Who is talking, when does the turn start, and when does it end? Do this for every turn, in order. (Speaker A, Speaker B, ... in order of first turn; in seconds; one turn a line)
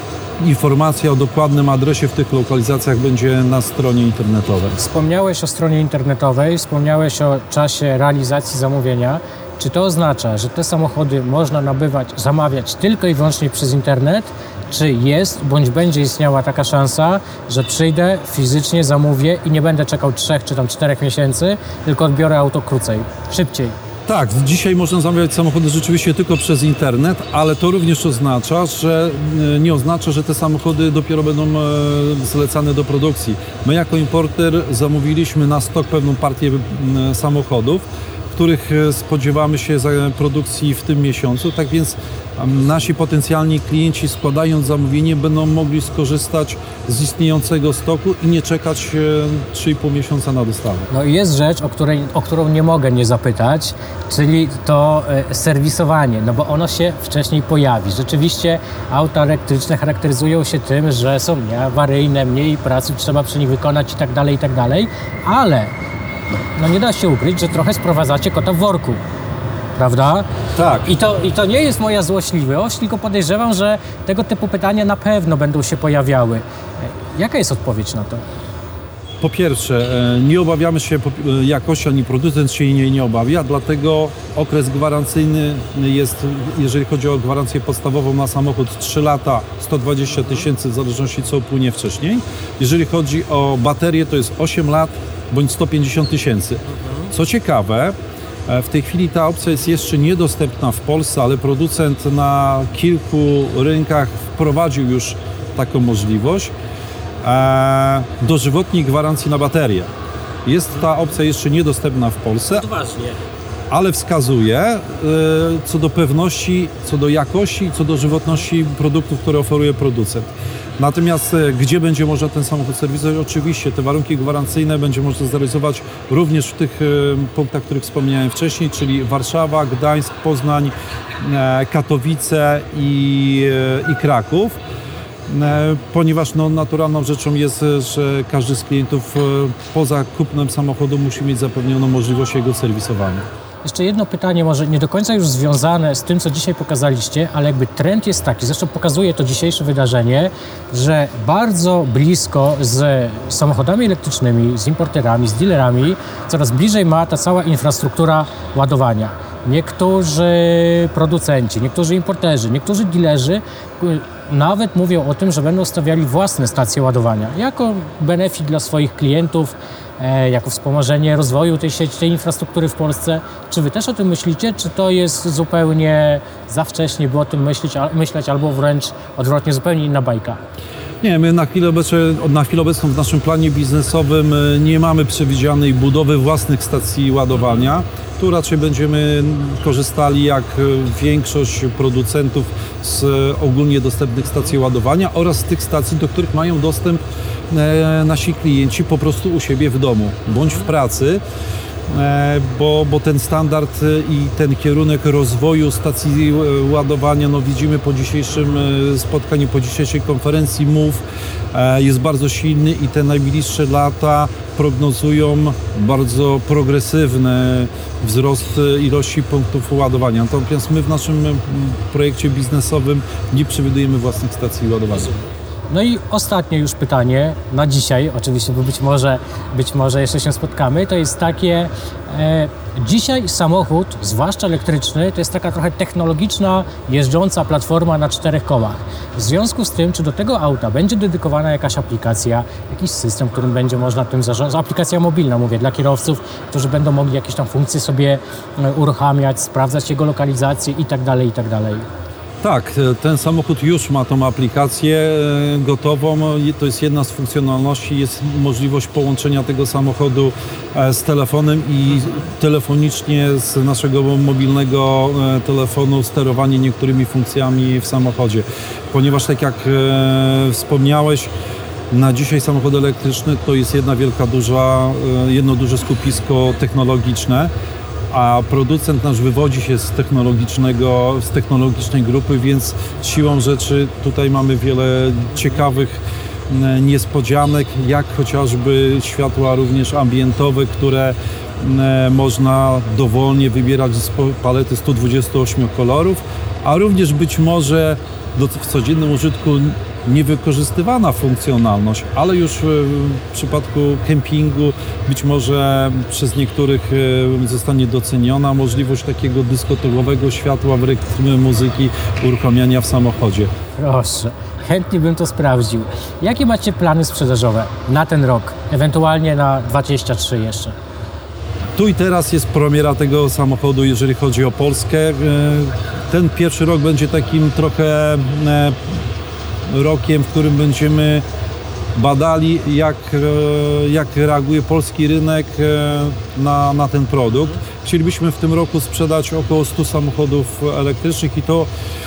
Speaker A: 0.4-4.8
Speaker B: 4.8-23.7
Speaker A: 24.1-50.9
Speaker B: 50.9-65.7
Speaker B: 66.5-69.0
Speaker B: 69.8-70.3
Speaker A: 70.5-70.9
Speaker B: 70.8-78.2
Speaker A: 79.2-98.0
Speaker A: 98.5-106.5
Speaker A: 107.2-109.9
Speaker A: 110.4-112.7
Speaker B: 112.7-113.2
Speaker A: 113.7-134.6
Speaker A: 135.3-143.2
Speaker B: 143.6-180.4
Speaker A: 181.0-201.2
Speaker A: 201.9-225.2
Speaker B: 225.7-251.9
Speaker A: 252.4-271.3
Speaker A: 271.9-277.5
Speaker A: 278.1-313.5
Speaker B: 313.8-320.8
Speaker A: 321.7-328.9
Speaker A: 329.7-331.2
Speaker A: 331.9-341.7